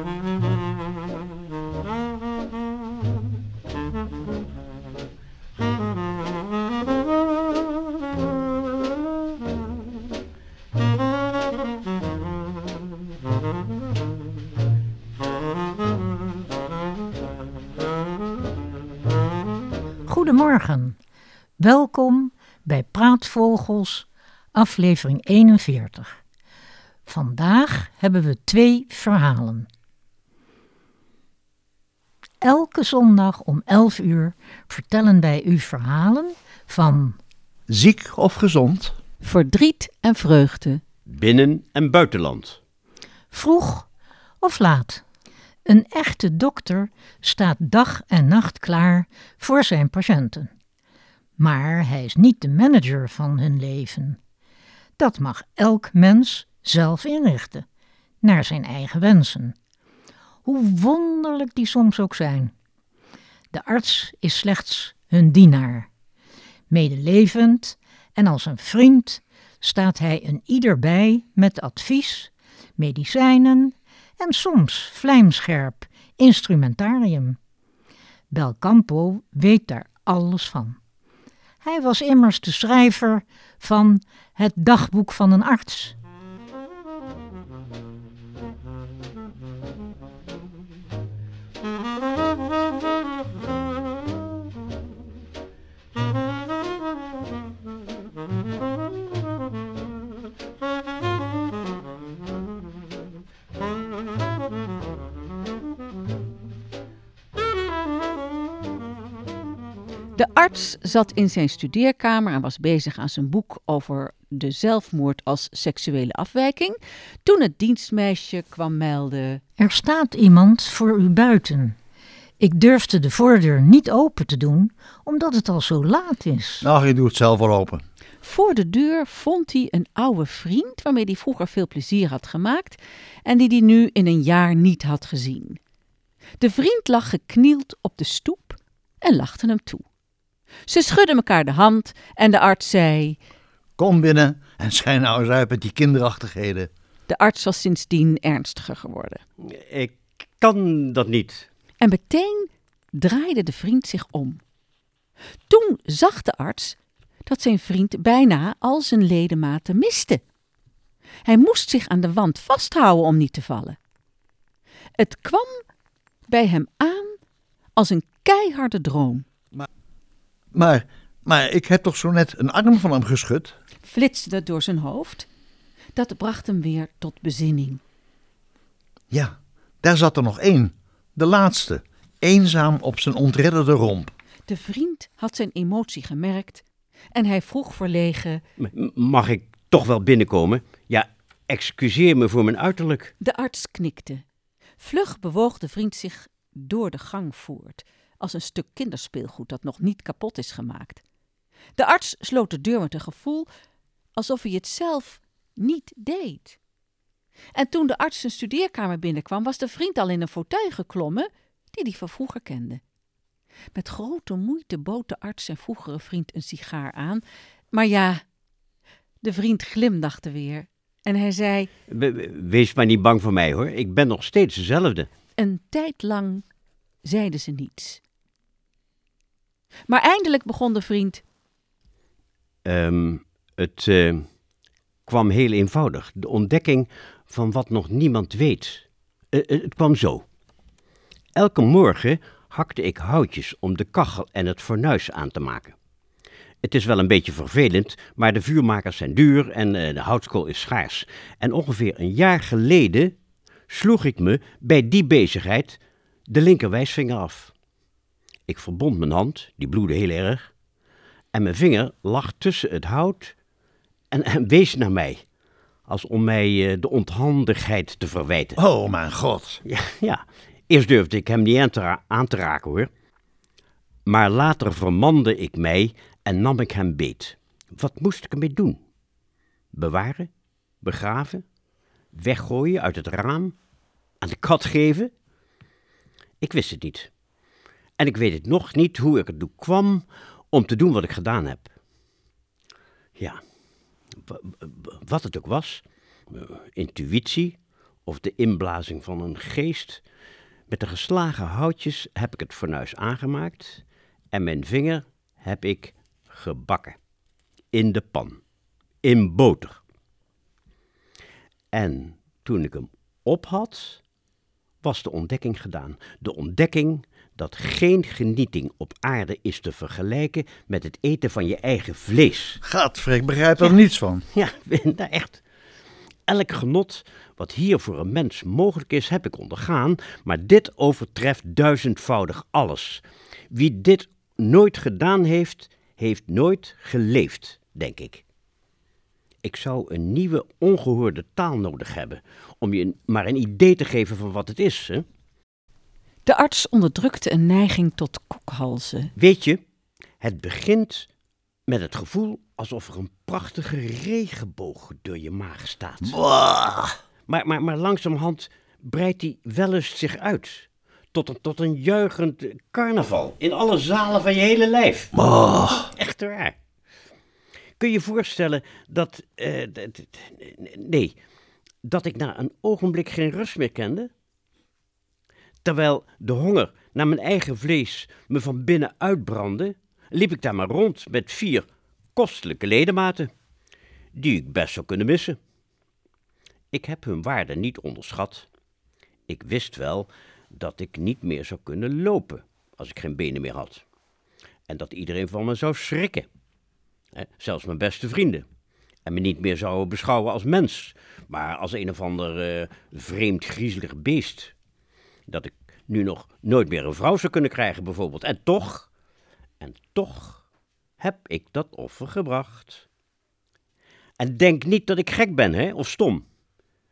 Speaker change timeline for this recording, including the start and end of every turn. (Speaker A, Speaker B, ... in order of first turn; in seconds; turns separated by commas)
Speaker A: 20.1-21.0, Speaker A: 21.6-26.2, Speaker A: 27.1-29.7, Speaker A: 32.4-37.2, Speaker B: 37.7-39.0, Speaker C: 39.2-40.8, Speaker D: 41.0-42.6, Speaker A: 43.3-43.9, Speaker A: 44.4-45.0, Speaker A: 45.6-50.5, Speaker A: 51.4-54.2, Speaker A: 55.0-57.6, Speaker A: 58.2-59.5, Speaker A: 60.4-62.5, Speaker A: 63.5-65.9, Speaker A: 66.7-77.4, Speaker A: 78.3-80.8, Speaker A: 81.6-85.9, Speaker C: 110.1-119.4, Speaker A: 119.6-121.8, Speaker A: 122.4-126.7, Speaker B: 126.6-127.8, Speaker C: 128.2-135.6, Speaker C: 136.4-139.8, Speaker C: 140.7-143.2, Speaker B: 143.8-146.7, Speaker C: 147.1-149.2, Speaker D: 149.4-151.5, Speaker C: 151.8-154.4, Speaker C: 155.5-160.2, Speaker C: 161.2-163.8, Speaker C: 165.0-165.6, Speaker C: 166.3-167.2, Speaker C: 167.8-169.2, Speaker B: 170.5-173.5, Speaker C: 173.8-175.3, Speaker C: 175.9-177.8, Speaker B: 179.1-184.1, Speaker C: 184.5-188.4, Speaker D: 188.6-193.1, Speaker C: 193.2-194.2, Speaker C: 194.8-201.0, Speaker C: 201.8-203.5, Speaker C: 204.2-206.6, Speaker C: 207.5-212.8, Speaker C: 213.7-218.2, Speaker C: 219.2-221.7, Speaker D: 221.9-225.1, Speaker C: 225.4-226.4, Speaker C: 227.0-228.0, Speaker C: 229.9-231.2, Speaker D: 232.6-234.2, Speaker D: 235.1-240.2, Speaker D: 241.3-245.7, Speaker D: 246.6-253.1, Speaker D: 253.7-257.5, Speaker D: 258.5-260.5, Speaker D: 261.3-263.3, Speaker D: 264.1-265.2, Speaker D: 265.9-268.6, Speaker B: 268.6-269.6, Speaker D: 269.6-272.9, Speaker D: 274.0-278.8, Speaker D: 279.7-280.3, Speaker D: 280.8-281.4, Speaker D: 282.1-283.5, Speaker D: 284.2-285.1, Speaker D: 286.4-287.1, Speaker D: 288.0-291.7, Speaker D: 294.2-300.0, Speaker D: 300.7-306.9, Speaker D: 307.7-308.4, Speaker D: 309.0-309.8, Speaker D: 311.7-314.0, Speaker D: 314.8-322.6, Speaker B: 322.6-324.2, Speaker D: 324.3-325.4, Speaker D: 326.3-338.2, Speaker D: 339.4-345.0, Speaker C: 346.2-349.1, Speaker D: 349.2-349.6, Speaker D: 350.2-351.1, Speaker D: 351.7-356.2, Speaker B: 356.0-356.9, Speaker D: 357.3-365.1, Speaker B: 365.1-365.9, Speaker D: 365.9-366.6, Speaker D: 367.8-371.1, Speaker D: 371.8-374.1, Speaker D: 375.6-383.3, Speaker D: 384.1-385.4, Speaker D: 386.7-388.4, Speaker D: 389.3-393.8, Speaker D: 394.7-396.3, Speaker D: 397.1-398.4, Speaker D: 399.0-404.5, Speaker D: 405.3-408.9, Speaker D: 409.6-410.4, Speaker D: 411.0-412.8, Speaker D: 414.2-416.2